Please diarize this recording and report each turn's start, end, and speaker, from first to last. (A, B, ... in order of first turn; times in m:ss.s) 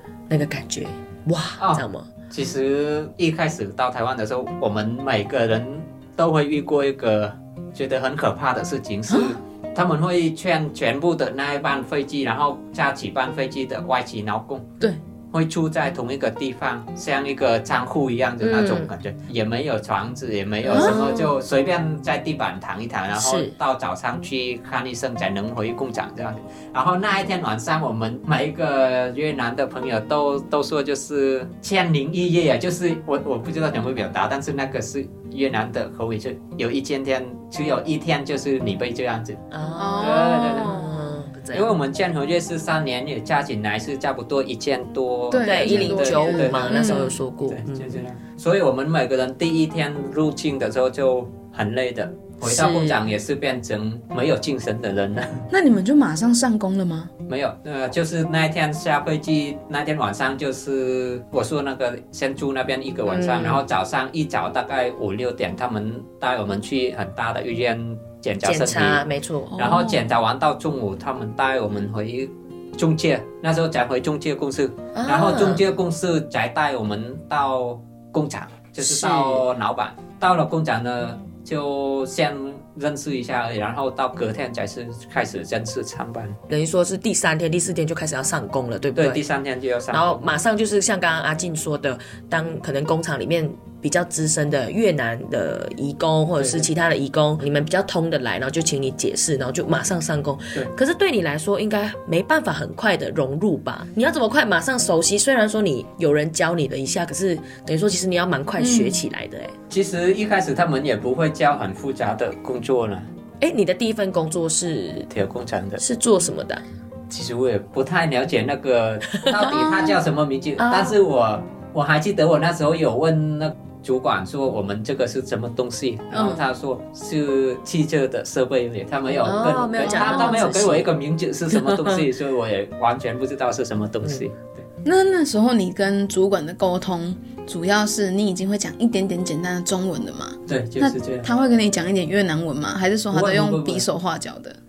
0:00.3-0:02.1 A
0:01.6-0:14.7 B
0:09.1-0:09.4 C
0:15.3-0:39.4 B
0:18.4-0:18.9 A
0:20.6-0:21.4 A
0:20.7-0:21.0 C
0:23.1-0:23.5 A
0:39.5-0:41.8 A
0:39.8-0:41.1 C
0:40.0-0:40.8 B
0:41.5-0:55.4 B
0:45.3-0:47.2 C
0:45.4-0:48.0 A
0:52.4-0:53.0 A
0:55.5-0:57.1 C
0:57.3-1:09.0 B
1:03.0-1:03.6 A
1:08.4-1:09.8 A
1:09.6-1:26.4 B
1:09.6-1:10.0 C
1:14.9-1:15.6 A
1:18.8-1:19.4 A
1:26.5-1:29.2 A
1:28.9-1:30.2 B
1:29.9-1:49.5 A
1:36.4-1:36.7 B
1:48.6-1:49.0 C
1:49.7-1:53.0 B
1:53.4-1:55.1 A
1:55.1-1:55.8 B
1:55.8-1:56.6 A
1:57.1-2:14.6 B
1:59.2-1:59.9 A
2:00.6-2:01.0 A
2:06.1-2:06.4 C
2:09.1-2:10.9 A
2:09.8-2:10.4 C
2:11.5-2:12.0 A
2:14.8-2:24.6 C
2:20.5-2:21.3 B
2:23.1-2:23.9 B